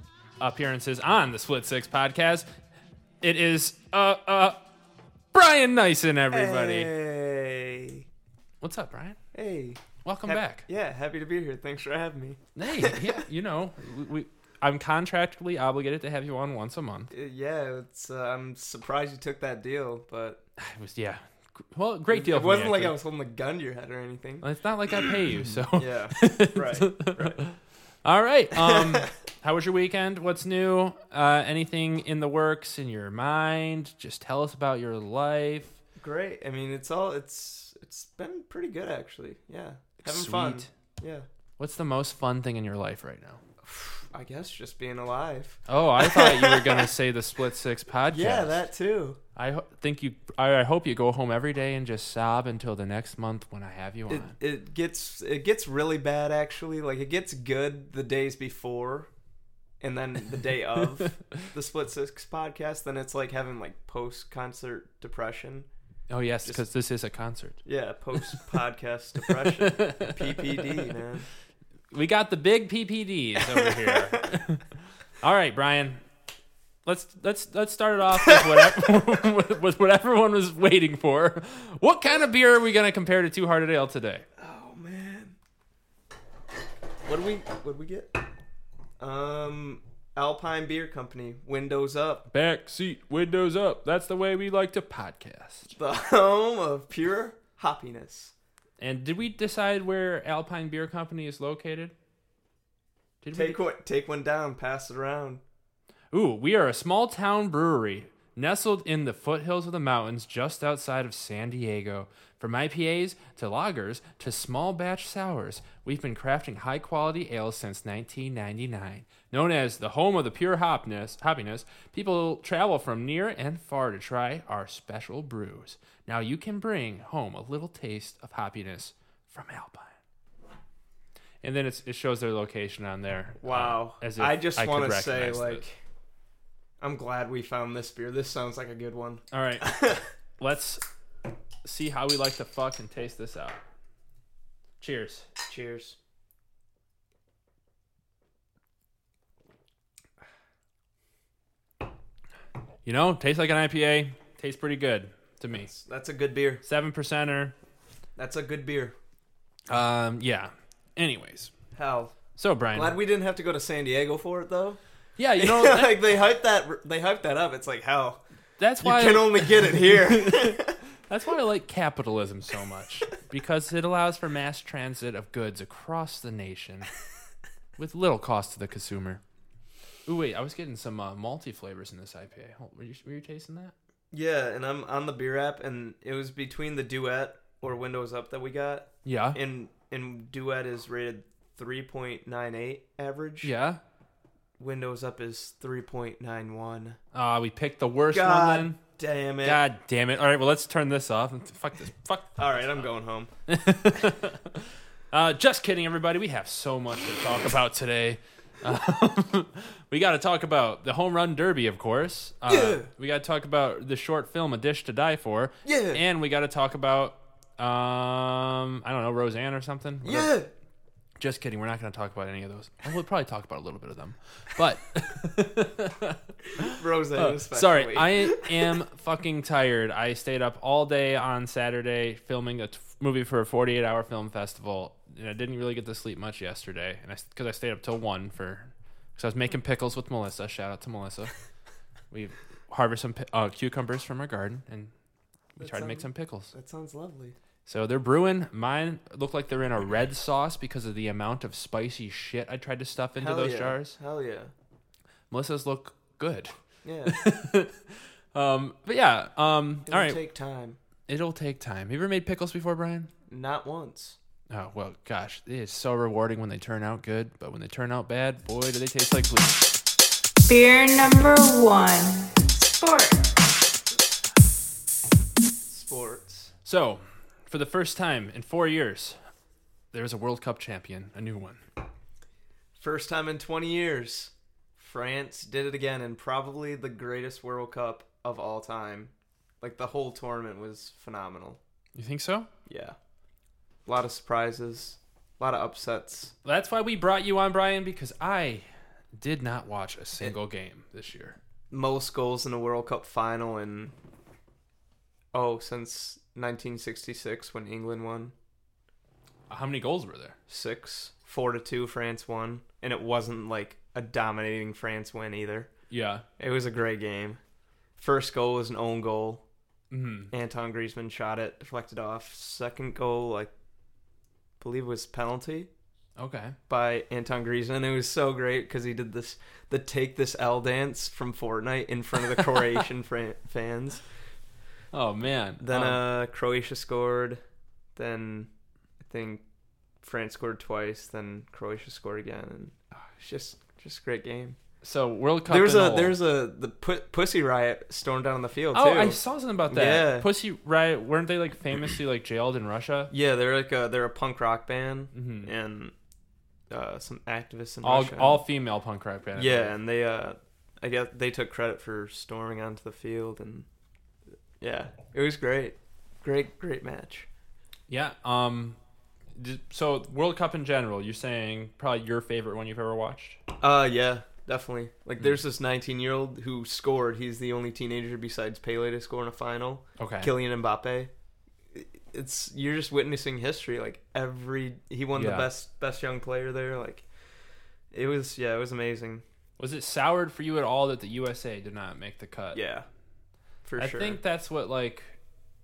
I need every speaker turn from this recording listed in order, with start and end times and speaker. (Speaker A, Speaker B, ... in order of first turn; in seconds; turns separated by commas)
Speaker A: 0.4-2.5, Speaker A: 3.2-4.6, Speaker A: 5.3-6.9, Speaker B: 6.3-8.1, Speaker A: 8.6-9.2, Speaker B: 9.3-13.2, Speaker A: 10.0-10.7, Speaker A: 12.6-17.1, Speaker B: 17.1-20.4, Speaker A: 20.6-22.9, Speaker B: 22.1-27.4, Speaker A: 24.4-35.8, Speaker B: 28.5-29.1, Speaker B: 36.0-41.3, Speaker A: 40.0-40.7, Speaker A: 41.6-43.4, Speaker B: 43.6-46.9, Speaker A: 45.7-48.7, Speaker B: 48.1-49.2, Speaker A: 49.4-54.4, Speaker B: 54.1-59.1, Speaker B: 59.8-65.7, Speaker A: 66.1-67.6, Speaker B: 67.7-71.3, Speaker A: 68.1-68.5, Speaker A: 69.3-70.9, Speaker A: 71.9-76.1, Speaker B: 73.5-74.2, Speaker A: 76.8-84.3, Speaker B: 78.3-78.6, Speaker B: 84.4-85.4, Speaker B: 87.0-88.2, Speaker B: 89.0-92.3, Speaker A: 92.3-95.7, Speaker B: 95.8-98.3, Speaker A: 98.8-101.9, Speaker A: 103.2-103.6, Speaker B: 103.3-105.4, Speaker A: 106.1-130.0, Speaker A: 131.4-135.6, Speaker B: 133.4-135.8, Speaker B: 136.8-140.1, Speaker A: 139.3-139.7, Speaker A: 140.4-140.8, Speaker A: 141.6-143.6, Speaker A: 144.8-145.3, Speaker B: 145.5-146.0, Speaker A: 152.8-155.7, Speaker B: 155.5-156.6, Speaker A: 156.6-157.6, Speaker B: 158.2-158.9, Speaker A: 159.7-161.5, Speaker B: 161.8-162.2, Speaker A: 162.4-163.0, Speaker B: 162.7-164.8, Speaker A: 165.2-166.0, Speaker B: 165.4-168.2, Speaker A: 168.6-176.9, Speaker B: 168.8-170.8, Speaker A: 177.8-179.2, Speaker A: 180.1-183.7, Speaker B: 184.1-193.5, Speaker A: 189.1-189.4, Speaker A: 193.4-193.8, Speaker B: 194.6-197.0, Speaker A: 197.1-198.8, Speaker B: 198.1-199.6, Speaker A: 199.4-202.8, Speaker B: 202.4-203.3, Speaker A: 203.5-220.3, Speaker B: 212.5-212.9, Speaker B: 215.7-216.0, Speaker B: 220.0-220.5, Speaker A: 221.2-241.3, Speaker B: 226.7-228.8, Speaker A: 242.1-244.9, Speaker A: 245.6-246.5, Speaker B: 245.6-247.4, Speaker A: 247.7-254.0, Speaker B: 253.2-254.5, Speaker A: 255.3-260.2, Speaker B: 256.8-257.2, Speaker B: 259.9-260.8, Speaker A: 261.1-263.1, Speaker B: 263.3-264.2, Speaker A: 264.5-269.7, Speaker C: 270.5-273.4, Speaker B: 275.7-276.5, Speaker A: 276.6-279.2, Speaker A: 279.9-281.6, Speaker B: 282.8-291.6, Speaker A: 291.9-292.5, Speaker B: 292.7-293.0, Speaker B: 293.9-296.3, Speaker A: 296.4-298.7, Speaker A: 299.2-301.4, Speaker B: 301.7-303.9, Speaker B: 305.3-308.3, Speaker A: 309.5-310.4, Speaker B: 310.5-315.7, Speaker A: 315.9-316.2, Speaker B: 316.4-317.4, Speaker B: 318.0-319.4, Speaker A: 319.9-320.3, Speaker B: 320.3-323.5, Speaker B: 324.6-325.7, Speaker A: 326.2-326.6, Speaker B: 326.7-334.0, Speaker A: 334.9-336.0, Speaker B: 335.6-337.4, Speaker B: 338.0-338.5, Speaker B: 339.0-339.4, Speaker B: 340.0-344.6, Speaker A: 344.8-346.2, Speaker B: 345.5-349.2, Speaker A: 348.7-353.1, Speaker B: 349.7-350.3, Speaker B: 353.1-355.9, Speaker A: 355.1-355.5, Speaker B: 356.7-358.4, Speaker A: 357.8-359.7, Speaker B: 359.4-363.7, Speaker B: 364.6-367.3, Speaker A: 367.9-368.8, Speaker A: 369.4-373.4, Speaker B: 373.6-381.1, Speaker A: 380.0-380.3, Speaker B: 381.7-387.1, Speaker A: 385.1-385.5, Speaker B: 387.9-389.2, Speaker A: 389.6-392.6, Speaker B: 392.5-392.9, Speaker B: 393.6-394.2, Speaker A: 393.8-395.2